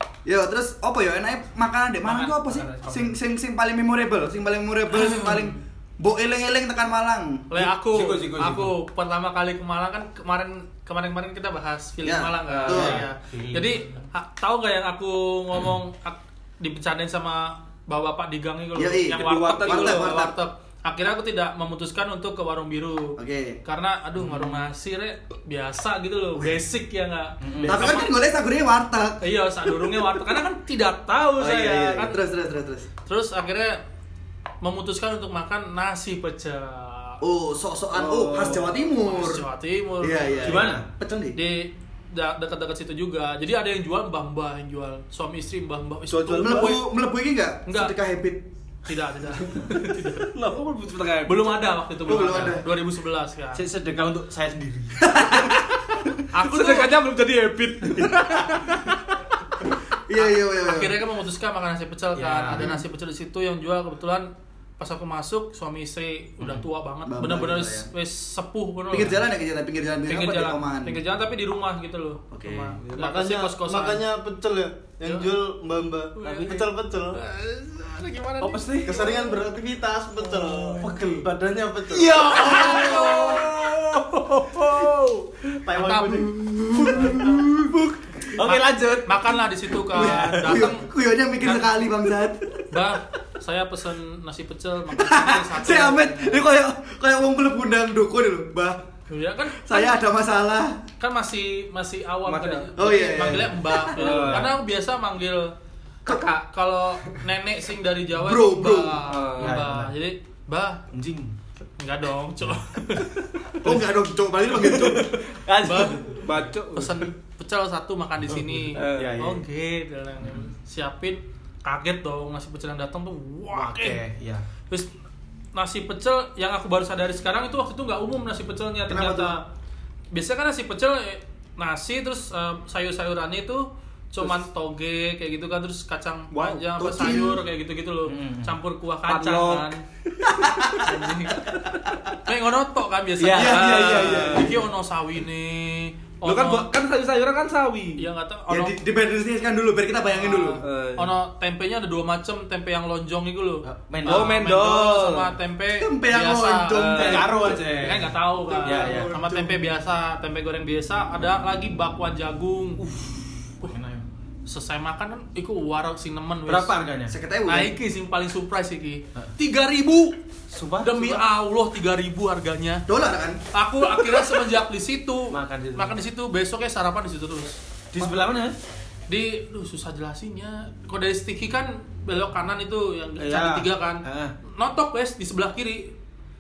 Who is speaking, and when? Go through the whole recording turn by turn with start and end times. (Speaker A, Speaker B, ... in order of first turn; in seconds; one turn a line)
Speaker A: 0.2-7.7
Speaker B: 2.0-3.2
Speaker C: 4.9-5.6
Speaker C: 7.5-28.2
Speaker B: 7.9-8.7
Speaker A: 12.0-13.0
Speaker D: 12.5-12.9
Speaker B: 12.7-13.8
Speaker A: 18.8-20.3
Speaker D: 19.2-20.1
Speaker A: 23.2-23.6
Speaker B: 27.4-27.8
Speaker A: 27.6-29.2
Speaker C: 29.2-32.2
Speaker A: 31.4-32.9
Speaker C: 33.1-33.8
Speaker C: 34.6-37.2
Speaker A: 37.2-39.4
Speaker D: 37.9-38.8
Speaker C: 38.9-40.7
Speaker A: 40.0-41.4
Speaker B: 40.4-40.9
Speaker C: 41.4-46.9
Speaker D: 46.1-46.8
Speaker A: 46.4-48.5
Speaker C: 47.7-47.9
Speaker C: 48.9-50.3
Speaker D: 49.9-51.8
Speaker C: 51.2-53.6
Speaker A: 52.0-52.7
Speaker B: 52.1-52.6
Speaker B: 53.5-55.2
Speaker A: 55.0-55.6
Speaker C: 56.3-57.0
Speaker D: 56.4-59.0
Speaker A: 60.1-61.0
Speaker C: 60.1-69.2
Speaker B: 62.1-62.7
Speaker A: 62.5-62.8
Speaker A: 67.1-67.9
Speaker A: 68.9-71.0
Speaker C: 70.1-74.1
Speaker A: 72.3-72.8
Speaker E: 72.9-77.2
Speaker C: 75.0-75.3
Speaker C: 76.2-79.4
Speaker B: 76.2-76.7
Speaker B: 78.4-79.1
Speaker E: 78.8-82.3
Speaker C: 80.2-81.0
Speaker B: 80.8-81.3
Speaker B: 81.9-83.8
Speaker C: 82.1-85.0
Speaker D: 82.3-84.8
Speaker B: 85.7-86.3
Speaker C: 85.7-87.5
Speaker A: 85.9-87.7
Speaker B: 88.3-89.4
Speaker C: 88.4-90.9
Speaker B: 89.9-90.7
Speaker A: 89.9-92.7
Speaker C: 92.7-96.5
Speaker A: 94.9-98.8
Speaker C: 99.1-100.0
Speaker A: 99.5-100.8
Speaker C: 101.0-105.5
Speaker D: 102.3-102.7
Speaker A: 102.8-104.2
Speaker D: 103.9-104.6
Speaker C: 106.1-110.8
Speaker A: 108.2-109.0
Speaker D: 109.1-109.6
Speaker B: 109.4-109.9
Speaker B: 110.9-111.3
Speaker C: 111.8-113.1
Speaker A: 113.6-115.2
Speaker B: 114.6-116.3
Speaker C: 115.6-116.2
Speaker D: 116.1-117.1
Speaker C: 116.7-124.0
Speaker D: 118.7-119.2
Speaker B: 118.8-119.5
Speaker B: 123.5-124.4
Speaker C: 125.5-129.4
Speaker A: 128.9-129.3
Speaker C: 130.1-139.8
Speaker D: 136.3-137.1
Speaker A: 136.8-137.4
Speaker B: 138.1-138.6
Speaker D: 139.1-140.9
Speaker A: 140.4-140.7
Speaker C: 140.8-141.5
Speaker C: 142.2-146.7
Speaker B: 143.2-144.6
Speaker A: 143.3-144.4
Speaker D: 143.4-144.6
Speaker D: 146.3-148.0
Speaker C: 148.0-148.8
Speaker A: 148.5-150.6
Speaker C: 150.1-163.8
Speaker D: 150.6-151.2
Speaker B: 153.7-154.4
Speaker D: 154.1-155.3
Speaker A: 155.8-157.6
Speaker D: 156.8-157.3
Speaker B: 156.9-159.1
Speaker E: 158.4-159.7
Speaker B: 163.6-164.1
Speaker C: 164.5-166.7
Speaker B: 166.5-167.2
Speaker A: 167.1-167.7
Speaker C: 167.5-170.2
Speaker B: 170.5-171.2
Speaker C: 170.8-172.9
Speaker A: 172.9-173.4
Speaker C: 173.5-177.6
Speaker B: 175.3-176.0
Speaker B: 177.9-178.6
Speaker C: 179.1-184.0
Speaker B: 183.2-184.3
Speaker C: 184.6-185.9